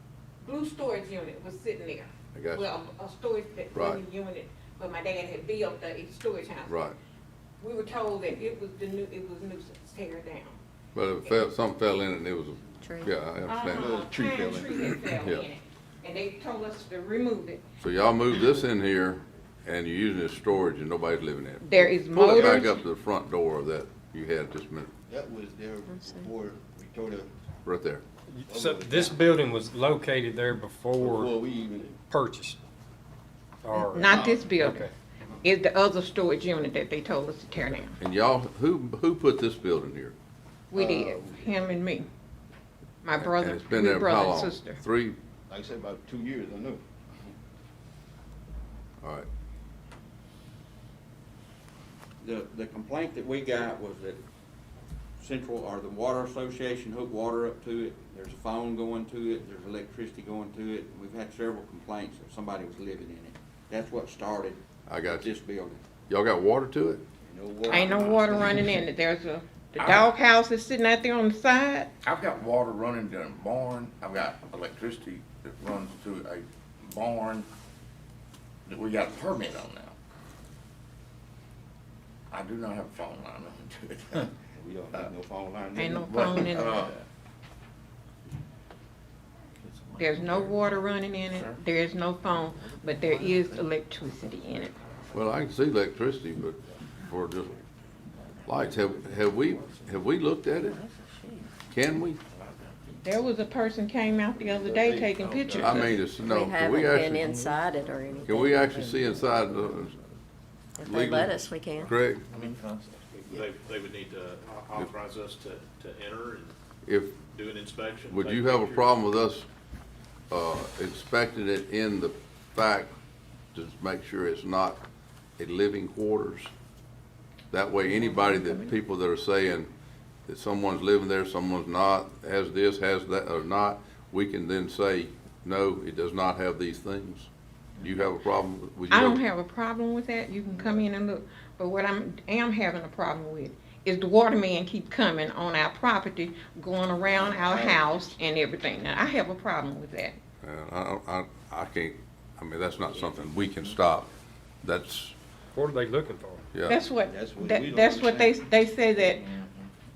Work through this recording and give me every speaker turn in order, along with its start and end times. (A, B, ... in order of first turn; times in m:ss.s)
0:00.4-0:06.8 A
0:02.3-0:02.7 B
0:03.7-0:04.0 B
0:06.7-0:07.0 B
0:07.6-0:10.6 A
0:10.9-0:13.9 B
0:12.8-0:13.1 C
0:13.4-0:17.6 A
0:13.7-0:14.9 D
0:15.0-0:15.4 B
0:17.8-0:24.9 B
0:21.6-0:22.8 A
0:25.1-0:27.3 D
0:27.6-0:28.0 B
0:28.3-0:31.4 E
0:28.4-0:29.2 D
0:31.0-0:32.0 D
0:32.1-0:32.6 E
0:33.6-0:34.9 E
0:33.8-0:34.9 A
0:35.4-0:38.0 A
0:38.0-0:40.1 B
0:40.7-0:42.0 A
0:40.7-0:41.4 D
0:43.0-0:44.8 A
0:43.1-0:45.2 B
0:45.5-0:46.8 D
0:49.0-0:49.3 B
0:52.2-0:54.2 F
0:55.2-1:05.8 F
1:04.9-1:05.3 B
1:06.1-1:07.0 B
1:07.2-1:08.6 D
1:07.7-1:11.9 A
1:12.0-1:13.1 G
1:12.1-1:14.8 D
1:13.9-1:17.5 G
1:15.6-1:16.0 D
1:18.7-1:19.9 G
1:22.3-1:24.2 G
1:24.3-1:27.0 D
1:25.8-1:26.9 A
1:26.0-1:26.9 G
1:29.6-1:30.0 F
1:30.0-1:34.7 A
1:35.1-1:37.6 B
1:38.4-1:40.8 B
1:40.8-1:41.5 E
1:41.7-1:42.2 B
1:43.0-1:46.1 A
1:44.4-1:45.8 D
1:45.6-1:47.6 B
1:46.2-1:49.0 C
1:48.2-1:49.9 B
1:50.8-1:51.9 C
1:50.8-1:52.2 B
1:52.3-1:53.0 F
1:52.3-1:52.6 D
1:53.1-1:56.5 H
1:56.8-1:57.2 B
1:57.2-1:58.9 H
1:58.1-1:59.5 B
2:00.3-2:02.9 B
2:03.5-2:04.8 B
2:05.4-2:06.5 B
2:07.5-2:09.7 B
2:07.9-2:08.7 A
2:10.3-2:19.2 B
2:18.9-2:30.2 A
2:27.1-2:28.2 D
2:30.4-2:34.1 B
2:34.6-2:35.2 B
2:35.5-2:36.4 E
2:36.7-2:39.2 A
2:37.1-2:38.4 D
2:39.1-2:39.7 D